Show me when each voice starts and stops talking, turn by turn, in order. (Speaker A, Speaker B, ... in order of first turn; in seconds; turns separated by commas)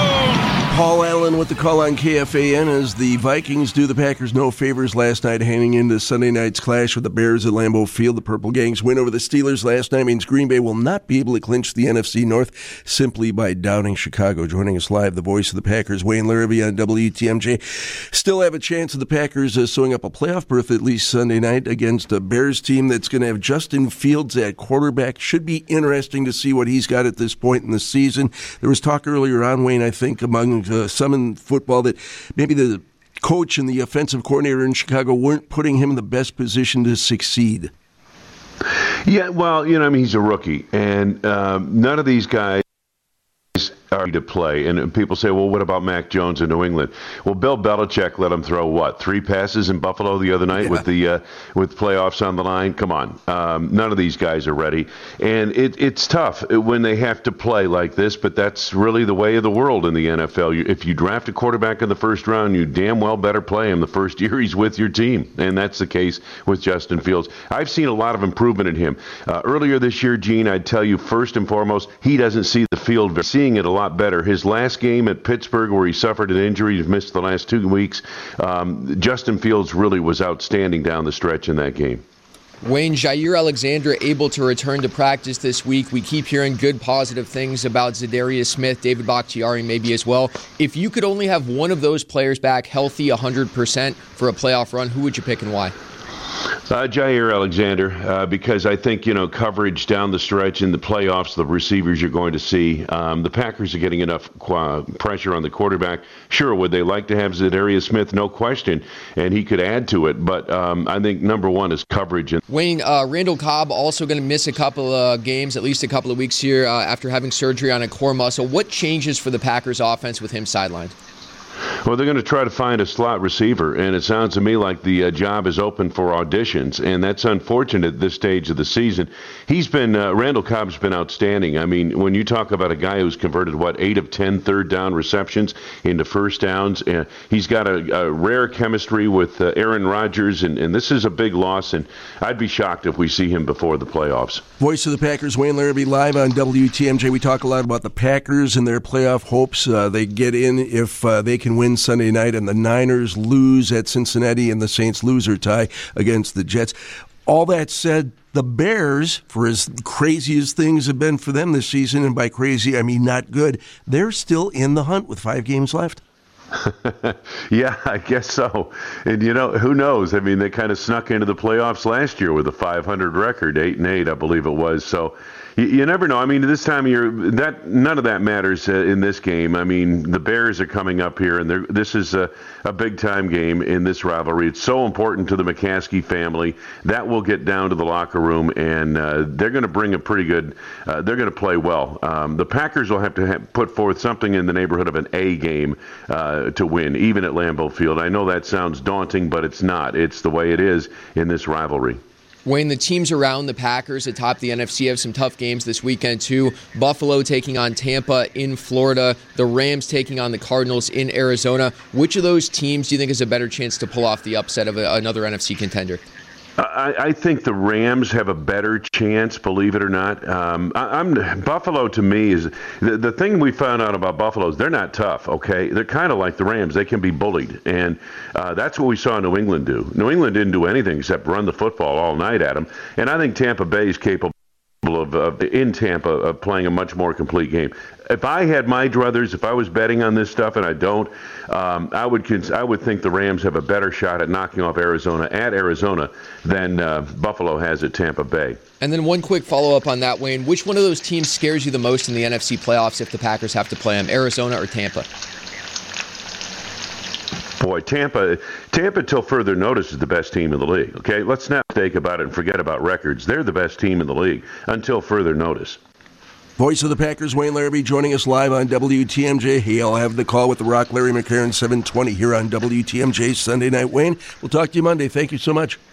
Speaker A: 0.7-17.6, Speaker A: 18.1-37.7, Speaker B: 39.1-42.6, Speaker B: 43.5-82.0, Speaker C: 82.6-95.7, Speaker B: 96.7-112.4, Speaker C: 112.5-120.9, Speaker B: 121.8-144.4, Speaker A: 144.6-156.8, Speaker A: 157.3-166.0, Speaker B: 166.6-202.0, Speaker C: 202.4-216.0, Speaker B: 216.6-248.6, Speaker C: 248.8-255.1, Speaker B: 257.6-265.8, Speaker A: 266.6-275.8